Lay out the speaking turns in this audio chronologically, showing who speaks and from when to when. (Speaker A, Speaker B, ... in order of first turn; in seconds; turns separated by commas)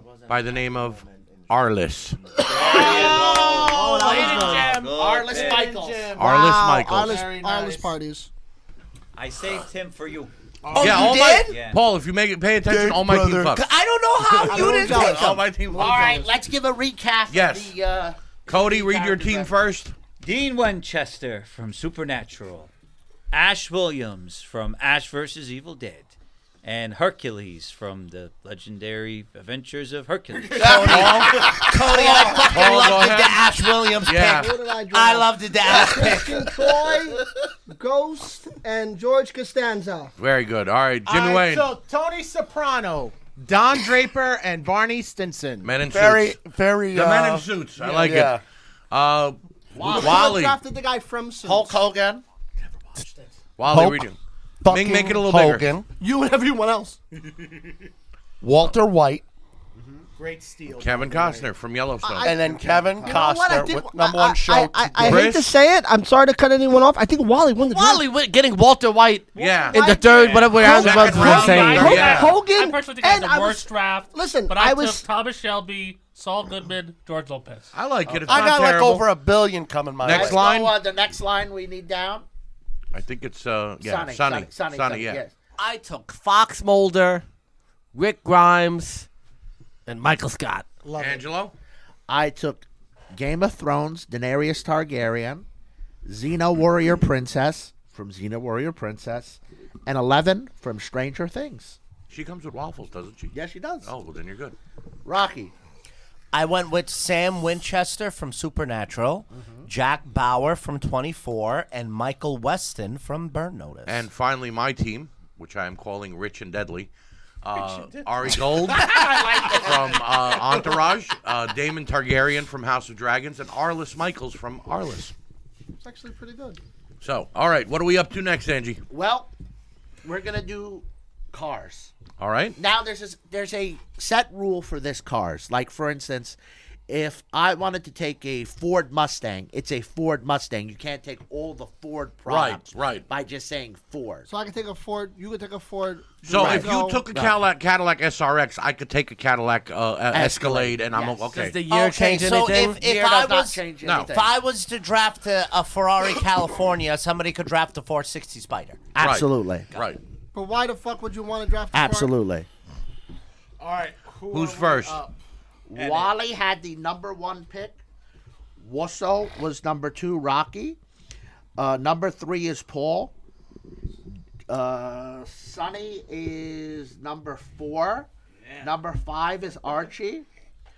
Speaker A: 0.3-2.4, Speaker B: 2.5-5.8, Speaker C: 2.5-4.7, Speaker D: 2.5-7.9, Speaker E: 2.8-3.5, Speaker E: 4.2-6.1, Speaker A: 6.2-7.2, Speaker C: 6.2-8.3, Speaker B: 9.1-10.8, Speaker D: 10.7-11.3, Speaker F: 10.7-11.6, Speaker A: 10.8-13.7, Speaker B: 11.4-11.8, Speaker G: 12.6-13.6, Speaker F: 13.5-15.8, Speaker A: 14.2-16.0, Speaker C: 14.4-16.3, Speaker E: 15.7-19.6, Speaker A: 17.3-17.7, Speaker A: 18.5-19.9, Speaker B: 20.2-22.7, Speaker B: 23.3-31.3, Speaker G: 30.6-32.5, Speaker F: 30.6-36.5, Speaker A: 30.9-31.3, Speaker A: 32.4-33.5, Speaker A: 34.0-34.5, Speaker C: 34.3-40.1, Speaker A: 40.2-41.7, Speaker D: 41.0-45.8, Speaker A: 45.6-46.4, Speaker G: 45.8-48.4, Speaker A: 46.9-48.4, Speaker A: 48.9-50.6, Speaker E: 49.7-50.3, Speaker C: 49.8-51.8, Speaker E: 51.4-52.2, Speaker D: 52.6-53.4, Speaker A: 53.6-55.7, Speaker G: 53.6-54.1, Speaker G: 54.6-55.9, Speaker C: 56.0-57.0, Speaker G: 58.4-59.2, Speaker E: 59.8-60.0, Speaker D: 60.2-61.5, Speaker A: 60.7-62.6, Speaker C: 62.0-62.4, Speaker G: 62.2-65.3, Speaker D: 62.5-63.1, Speaker C: 63.0-68.1, Speaker A: 65.0-65.5, Speaker H: 67.6-72.2, Speaker A: 69.3-72.4, Speaker C: 69.4-75.0, Speaker I: 71.0-77.7, Speaker A: 77.7-79.2, Speaker E: 78.1-78.5, Speaker G: 78.1-80.4, Speaker A: 80.0-80.8, Speaker E: 80.0-82.2, Speaker A: 82.9-85.2, Speaker E: 83.8-85.3, Speaker H: 85.6-87.2, Speaker H: 87.9-89.1, Speaker H: 89.9-90.7, Speaker D: 90.8-91.3, Speaker A: 91.0-91.5, Speaker E: 92.1-95.5, Speaker E: 96.0-101.8, Speaker A: 102.1-104.5, Speaker E: 103.3-103.9, Speaker E: 105.0-105.5, Speaker F: 106.3-114.0, Speaker E: 109.3-109.7, Speaker A: 113.9-116.9, Speaker A: 117.4-125.1, Speaker D: 117.7-118.1, Speaker E: 118.8-120.0, Speaker C: 125.8-126.6, Speaker A: 127.0-128.8, Speaker E: 128.9-129.3, Speaker E: 130.0-131.9, Speaker A: 132.2-132.6, Speaker E: 132.6-136.4, Speaker E: 136.9-144.3, Speaker A: 142.3-143.1, Speaker C: 144.3-147.0, Speaker A: 146.3-151.6, Speaker E: 146.3-147.4, Speaker E: 150.1-151.3, Speaker H: 151.3-152.8, Speaker F: 151.6-158.9, Speaker E: 152.6-154.3, Speaker A: 153.8-154.1, Speaker E: 158.9-159.7, Speaker A: 159.0-160.0, Speaker C: 160.3-162.1, Speaker E: 161.7-162.5, Speaker D: 163.6-165.1, Speaker A: 164.3-165.0, Speaker E: 165.7-167.8, Speaker B: 165.7-166.2, Speaker E: 168.6-170.8, Speaker E: 171.6-173.1, Speaker E: 174.5-180.3, Speaker B: 178.4-178.7